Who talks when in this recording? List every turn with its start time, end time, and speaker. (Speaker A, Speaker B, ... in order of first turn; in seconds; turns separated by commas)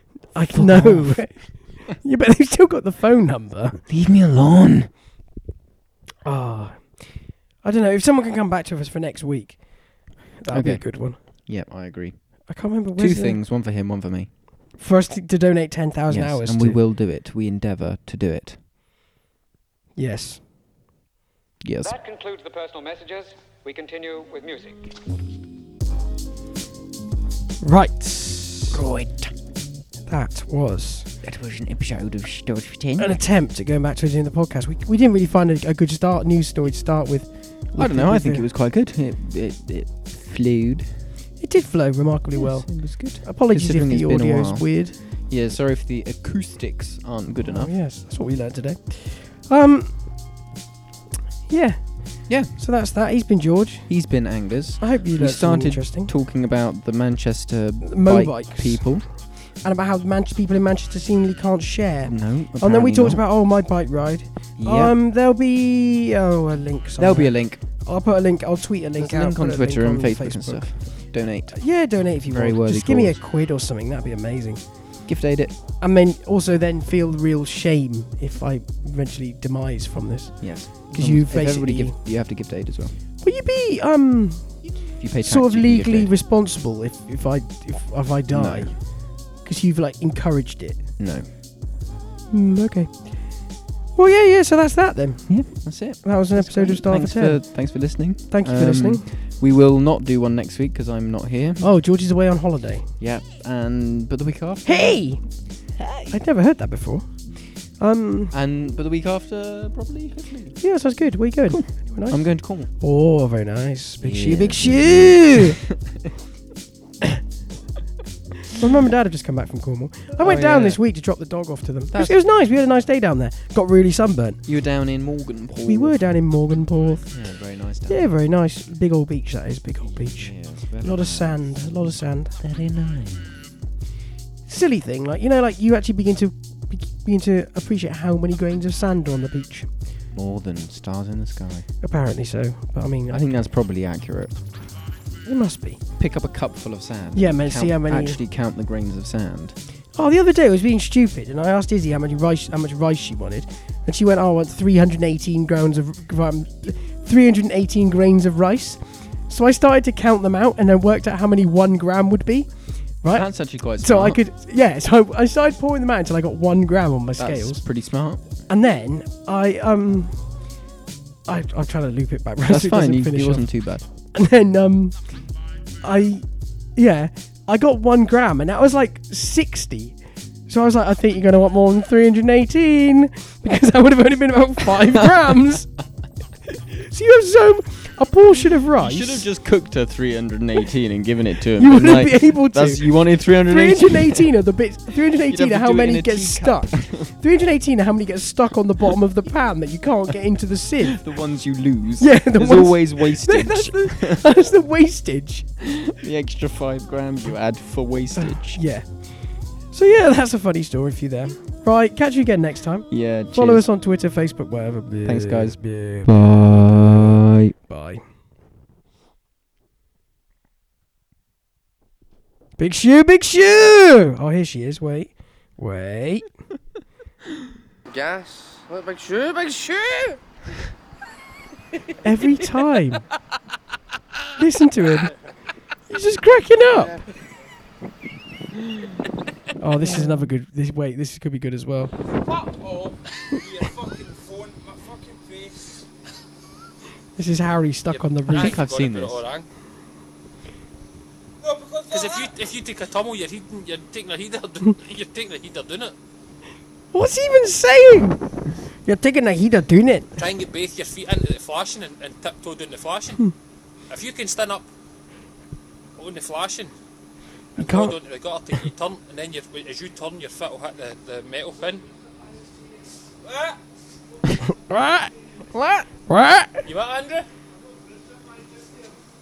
Speaker A: 0.3-3.8, Speaker B: 0.5-1.7, Speaker B: 3.9-4.9, Speaker A: 6.2-11.2, Speaker B: 10.5-14.3, Speaker A: 12.4-13.4, Speaker A: 14.8-16.8, Speaker B: 16.1-18.6, Speaker A: 19.9-20.4, Speaker B: 21.6-22.2, Speaker C: 22.0-24.8, Speaker A: 27.6-28.8, Speaker B: 28.7-29.3, Speaker A: 30.1-31.1, Speaker B: 31.2-33.2, Speaker A: 33.0-38.5, Speaker B: 37.8-41.0, Speaker A: 41.4-45.0, Speaker B: 42.4-47.7, Speaker A: 47.5-50.2, Speaker A: 51.5-54.0, Speaker B: 52.3-52.5, Speaker B: 53.9-59.0, Speaker A: 54.8-56.1, Speaker A: 57.8-74.6, Speaker B: 62.0-63.2, Speaker B: 64.6-64.9, Speaker B: 67.0-67.6, Speaker B: 69.0-71.7, Speaker B: 72.2-73.2, Speaker B: 75.0-75.6, Speaker A: 75.8-82.0, Speaker B: 80.4-83.0, Speaker A: 83.2-90.8, Speaker B: 85.0-86.1, Speaker B: 88.3-88.8, Speaker B: 91.0-91.3, Speaker A: 92.3-99.0, Speaker B: 95.3-101.7, Speaker A: 101.6-102.9, Speaker B: 103.0-105.1, Speaker A: 104.6-105.3, Speaker B: 105.8-106.2, Speaker A: 106.1-108.3, Speaker B: 108.3-110.6, Speaker A: 110.6-115.6, Speaker B: 111.5-112.7, Speaker B: 114.0-115.7, Speaker A: 118.5-124.4, Speaker B: 120.2-120.8, Speaker B: 121.9-122.2, Speaker B: 124.5-126.0, Speaker A: 125.6-127.1, Speaker B: 127.1-128.0, Speaker A: 127.9-132.4, Speaker B: 130.2-131.5, Speaker B: 132.4-133.4, Speaker A: 134.4-139.7, Speaker B: 140.1-141.7, Speaker A: 141.8-143.3, Speaker B: 143.1-144.5, Speaker A: 145.2-145.8, Speaker B: 146.0-149.6, Speaker A: 147.1-148.2, Speaker A: 149.9-167.6, Speaker B: 163.1-164.2, Speaker B: 167.2-168.3, Speaker A: 168.5-170.3, Speaker A: 171.3-173.5, Speaker B: 172.5-173.9, Speaker A: 174.1-175.2, Speaker A: 175.8-185.7, Speaker A: 186.7-189.3, Speaker B: 188.8-194.3, Speaker A: 191.6-201.0, Speaker B: 195.1-197.1, Speaker B: 200.9-204.5, Speaker A: 202.0-205.6, Speaker B: 205.8-208.6, Speaker A: 208.4-216.1, Speaker B: 212.9-213.7, Speaker B: 215.0-217.5, Speaker A: 217.6-218.0, Speaker A: 222.6-226.3, Speaker D: 227.9-230.2, Speaker A: 232.0-233.0, Speaker A: 234.4-235.1, Speaker A: 235.9-237.0, Speaker A: 239.6-241.9, Speaker C: 242.4-245.8, Speaker A: 247.2-248.6, Speaker E: 247.9-249.5, Speaker B: 248.3-249.2, Speaker C: 251.5-251.8, Speaker E: 251.9-255.9, Speaker A: 256.9-258.3, Speaker A: 258.8-260.1, Speaker E: 260.2-263.3, Speaker E: 263.9-264.7, Speaker E: 265.9-266.7, Speaker A: 267.6-267.9, Speaker E: 267.6-271.8, Speaker C: 273.2-273.6, Speaker A: 274.4-275.1, Speaker D: 275.5-275.8, Speaker A: 276.1-276.7, Speaker E: 276.7-277.3